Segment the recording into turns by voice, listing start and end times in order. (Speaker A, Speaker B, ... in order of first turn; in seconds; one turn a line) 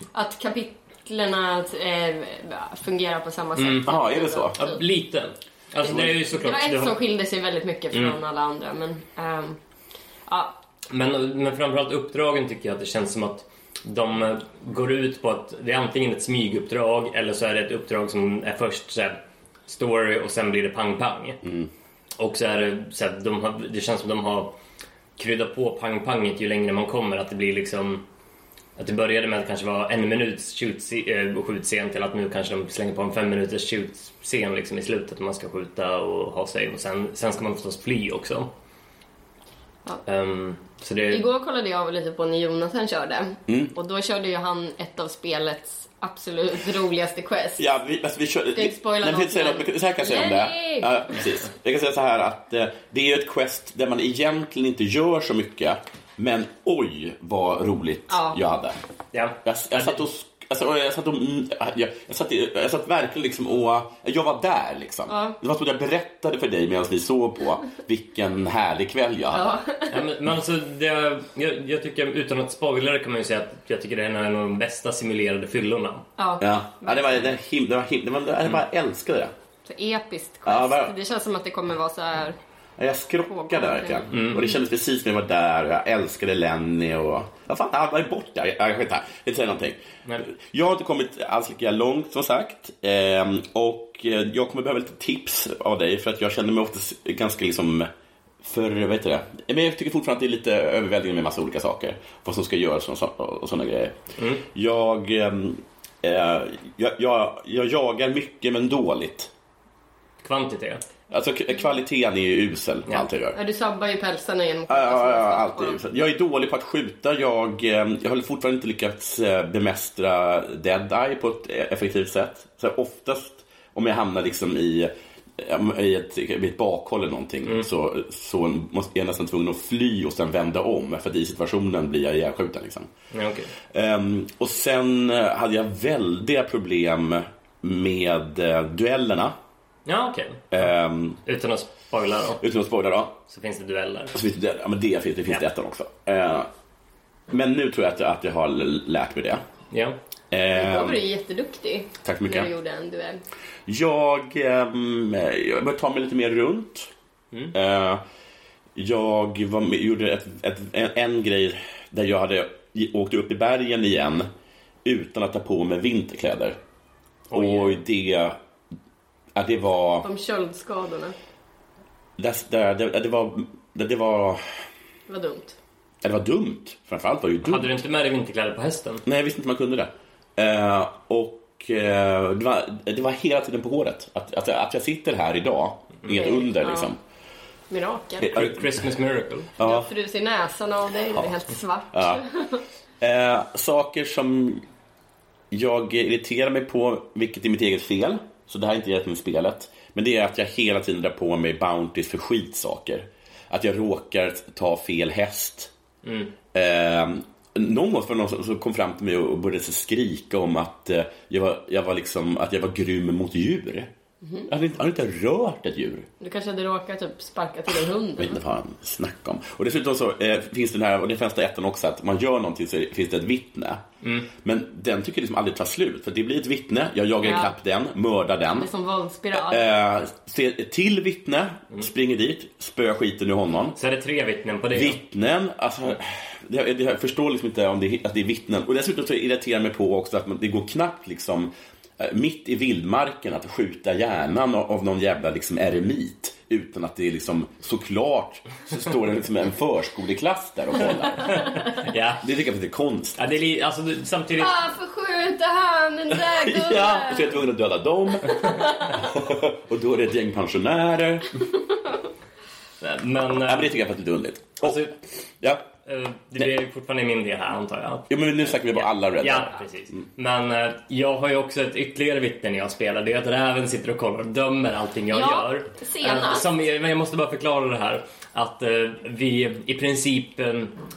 Speaker A: 0.1-4.8
Speaker B: 3.6-3.9
Speaker C: 3.8-4.6
Speaker B: 4.5-7.0
Speaker A: 5.8-9.6
Speaker A: 10.3-10.6
Speaker B: 10.9-21.4
Speaker C: 21.4-21.7
Speaker B: 22.2-24.6
Speaker B: 25.2-28.0
Speaker B: 28.8-38.5
Speaker B: 40.0-41.2
Speaker A: 41.1-47.6
Speaker C: 43.5-43.7
Speaker C: 47.6-58.8
Speaker A: 48.5-50.9
Speaker A: 58.1-58.4
Speaker B: 59.1-60.0
Speaker C: 59.4-69.6
Speaker A: 65.1-65.3
Speaker A: 69.3-70.0
Speaker B: 69.9-76.0
Speaker A: 76.2-77.3
Speaker C: 76.4-79.3
Speaker A: 79.7-82.4
Speaker C: 80.5-80.9
Speaker C: 82.8-97.9
Speaker A: 83.2-84.1
Speaker B: 84.1-84.5
Speaker C: 98.4-104.0
Speaker B: 104.2-104.4
Speaker C: 104.5-109.3
Speaker B: 110.2-110.8
Speaker C: 111.1-113.4
Speaker A: 113.3-115.8
Speaker C: 114.7-132.9
Speaker B: 133.1-133.5
Speaker C: 133.6-139.3
Speaker B: 139.8-140.7
Speaker C: 140.5-141.2
Speaker B: 141.2-142.4
Speaker C: 142.4-143.2
Speaker B: 143.3-144.1
Speaker C: 144.1-146.5
Speaker C: 147.3-149.4
Speaker B: 149.7-149.9
Speaker C: 150.3-151.0
Speaker A: 150.5-153.2
Speaker C: 152.0-152.5
Speaker C: 153.7-156.9
Speaker C: 157.5-158.0
Speaker C: 158.8-164.3
Speaker C: 164.8-166.6
Speaker B: 167.3-167.8
Speaker C: 167.3-168.4
Speaker C: 169.3-170.1
Speaker A: 170.0-171.1
Speaker C: 172.2-174.4
Speaker A: 175.1-175.5
Speaker C: 176.0-177.7
Speaker B: 177.4-179.0
Speaker C: 179.1-187.0
Speaker A: 186.1-186.9
Speaker A: 187.7-188.3
Speaker C: 188.2-188.8
Speaker B: 188.3-189.5
Speaker C: 189.6-189.9
Speaker A: 189.6-192.6
Speaker C: 191.9-192.2
Speaker C: 193.0-194.6
Speaker C: 195.5-205.7
Speaker B: 206.0-206.3
Speaker C: 206.5-213.9
Speaker A: 214.2-214.5
Speaker C: 214.5-216.1
Speaker A: 216.2-218.4
Speaker C: 218.2-223.8
Speaker B: 224.0-224.3
Speaker C: 224.4-228.7
Speaker A: 227.2-227.5
Speaker A: 228.6-229.6
Speaker C: 229.3-233.8
Speaker B: 233.8-235.0
Speaker C: 234.7-251.6
Speaker B: 251.7-252.2
Speaker C: 252.2-253.2
Speaker B: 253.2-254.5
Speaker A: 254.4-257.4
Speaker C: 256.1-261.4
Speaker A: 258.3-258.9
Speaker B: 262.8-263.7
Speaker C: 263.4-264.8
Speaker B: 264.6-264.9
Speaker B: 265.9-280.7
Speaker C: 268.1-270.0
Speaker A: 275.1-276.5